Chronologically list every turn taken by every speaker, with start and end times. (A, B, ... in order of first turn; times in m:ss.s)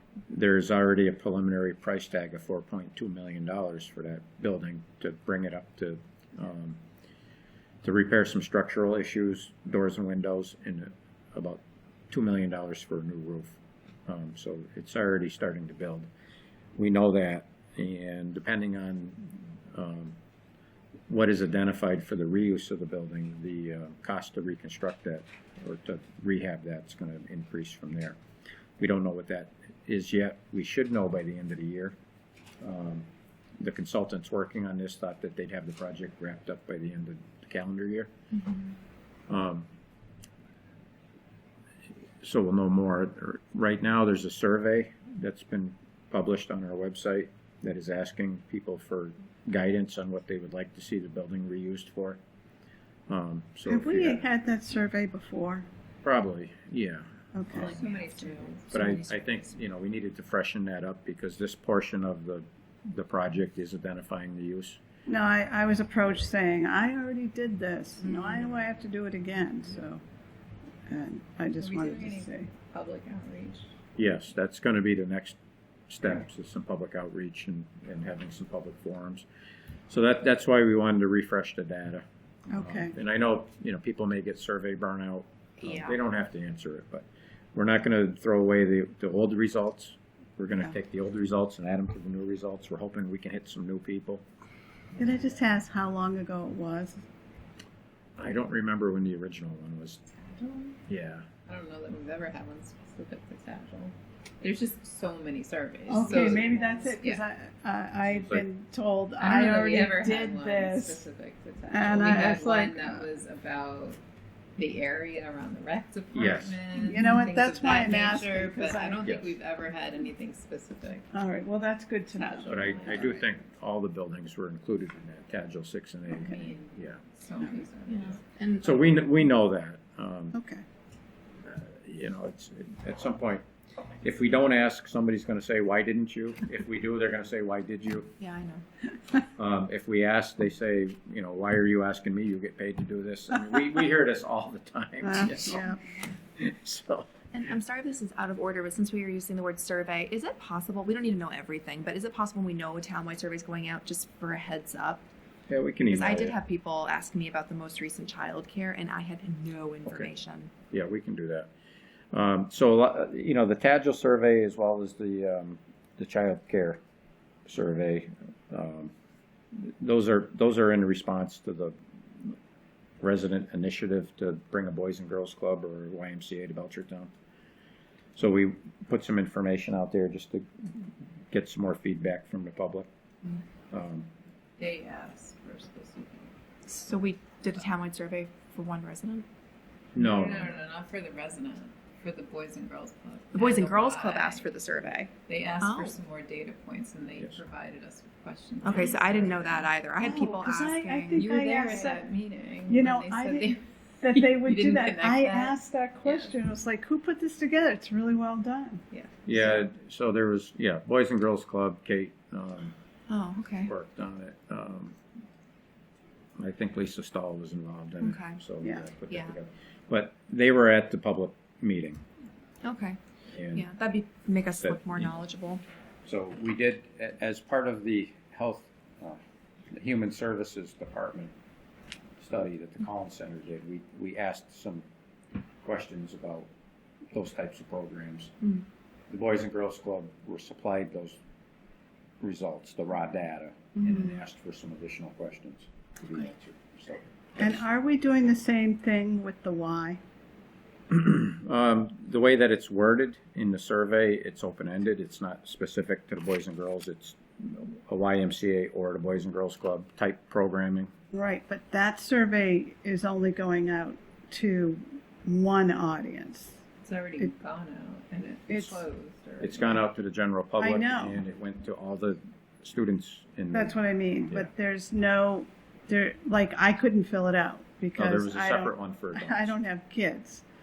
0:00.3-0:06.8 A
0:07.8-0:16.1 A
0:16.8-0:20.2 A
0:21.1-0:28.2 A
0:28.8-0:32.0 A
0:32.6-0:33.1 A
0:33.6-0:38.1 A
0:39.3-0:39.7 A
0:42.2-0:52.2 A
0:53.1-0:54.3 A
0:53.7-0:55.7 B
0:56.0-0:57.8 A
0:57.3-0:57.8 B
0:57.5-0:59.5 C
0:58.7-1:04.8 A
1:05.1-1:10.0 B
1:10.9-1:12.5 B
1:11.6-1:13.7 C
1:14.0-1:19.2 A
1:19.9-1:34.2 A
1:22.5-1:23.0 B
1:25.6-1:26.0 D
1:35.0-1:37.0 B
1:38.2-1:40.0 A
1:40.9-1:41.3 A
1:41.5-1:47.2 C
1:45.9-1:51.0 B
1:48.1-1:48.5 A
1:49.2-1:54.0 C
1:51.7-1:53.0 B
1:54.6-2:01.1 C
1:56.1-1:56.6 A
1:56.7-1:59.0 B
1:59.0-1:59.3 A
2:01.1-2:03.3 B
2:02.2-2:03.1 C
2:02.5-2:07.0 A
2:06.1-2:08.3 C
2:07.9-2:08.7 D
2:08.6-2:10.4 A
2:10.3-2:10.6 B
2:11.4-2:13.4 A
2:14.0-2:18.2 A
2:18.2-2:18.6 D
2:19.4-2:25.6 A
2:25.0-2:25.8 B
2:26.4-2:27.1 A
2:27.3-2:35.0 D
2:35.5-2:36.4 A
2:35.9-2:40.5 D
2:40.7-2:41.5 A
2:42.1-2:46.8 A
2:47.5-2:48.9 A
2:49.6-2:52.3 A
2:53.0-2:57.1 A
2:58.2-3:02.9 A
3:03.7-3:04.1 A
3:04.6-3:06.3 C
3:06.7-3:09.3 D
3:10.0-3:10.5 A
3:10.0-3:14.5 C
3:13.3-3:16.0 D
3:15.3-3:20.3 C
3:18.6-3:21.3 D
3:20.0-3:22.0 B
3:21.1-3:26.3 C
3:22.7-3:28.8 B
3:29.2-3:32.8 A
3:29.4-3:29.6 B
3:33.1-3:33.7 D
3:33.6-3:35.0 A
3:36.4-3:42.0 A
3:38.0-3:38.4 D
3:39.1-3:39.3 D
3:42.6-3:43.0 D
3:43.3-3:43.7 A
3:43.5-3:45.6 D
3:44.6-3:45.1 A
3:46.0-3:49.2 A
3:49.7-3:51.3 A
3:52.2-3:54.8 A
3:55.6-3:56.5 A
3:57.1-3:58.5 A
3:59.1-4:01.2 A
4:02.2-4:07.5 A
4:07.4-4:10.0 B
4:10.9-4:20.9 A
4:21.1-4:26.6 B
4:26.8-4:29.8 C
4:28.5-4:28.8 B
4:29.4-4:33.8 A
4:30.6-4:31.2 B
4:33.5-4:40.4 B
4:38.0-4:39.5 A